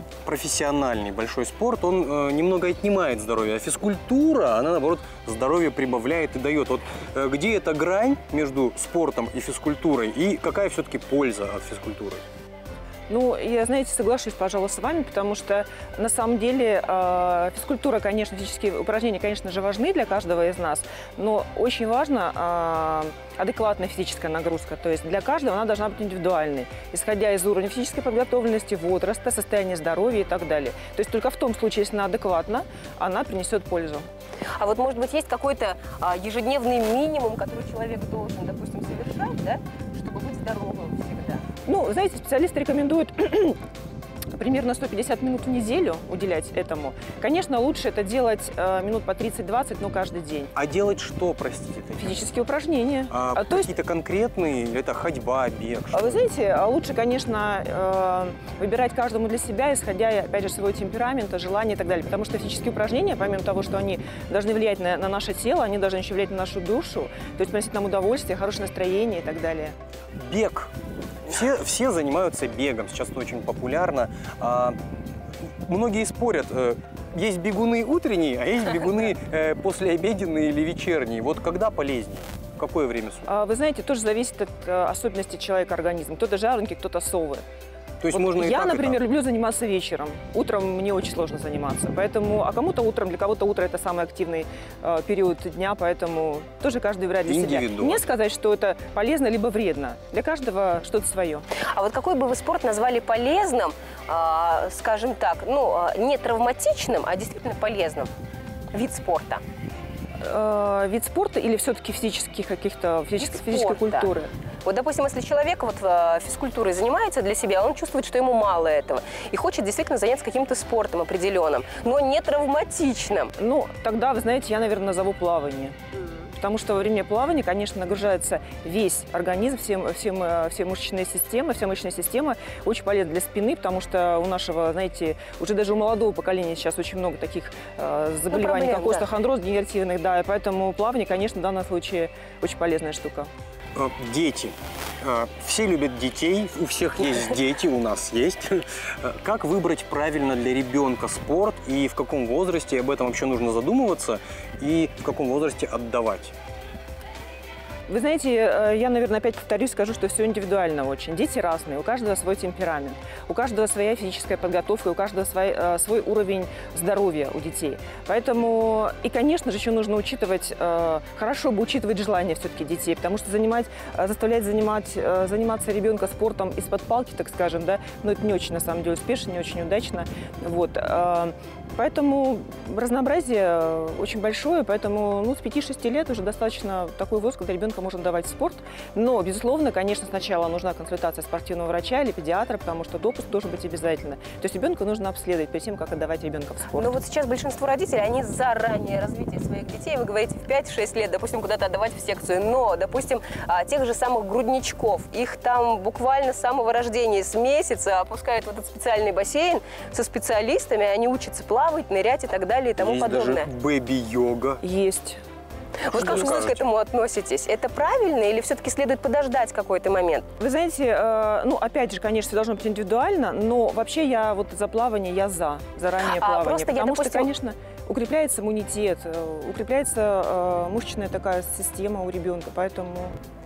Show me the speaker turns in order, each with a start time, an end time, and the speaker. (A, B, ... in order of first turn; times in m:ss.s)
0:00.2-0:12.2 A
0:13.1-0:34.0 B
0:34.6-0:41.4 C
0:41.7-0:43.6 B
0:44.4-0:50.5 B
0:50.5-0:52.2 A
0:52.0-0:53.7 B
0:53.1-0:56.2 A
0:55.9-1:09.8 B
1:10.2-1:10.7 A
1:11.2-1:14.8 A
1:15.6-1:23.3 A
1:23.3-1:27.4 B
1:28.0-1:29.0 A
1:28.1-1:41.5 B
1:37.2-1:38.0 A
1:41.6-1:48.1 C
1:48.7-1:49.4 C
1:50.2-1:54.3 B
1:53.2-1:54.1 C
1:54.6-2:03.3 C
2:03.4-2:05.7 B
2:06.3-2:23.3 B
2:18.3-2:19.1 C
2:23.8-2:36.4 A
2:37.9-3:16.9 B
3:16.8-3:33.5 C
3:32.8-3:34.6 A
3:34.6-3:35.2 B
3:35.8-3:40.3 C
3:35.9-3:36.6 A
3:36.0-3:36.4 B
3:40.4-3:53.1 B
3:46.0-3:47.3 C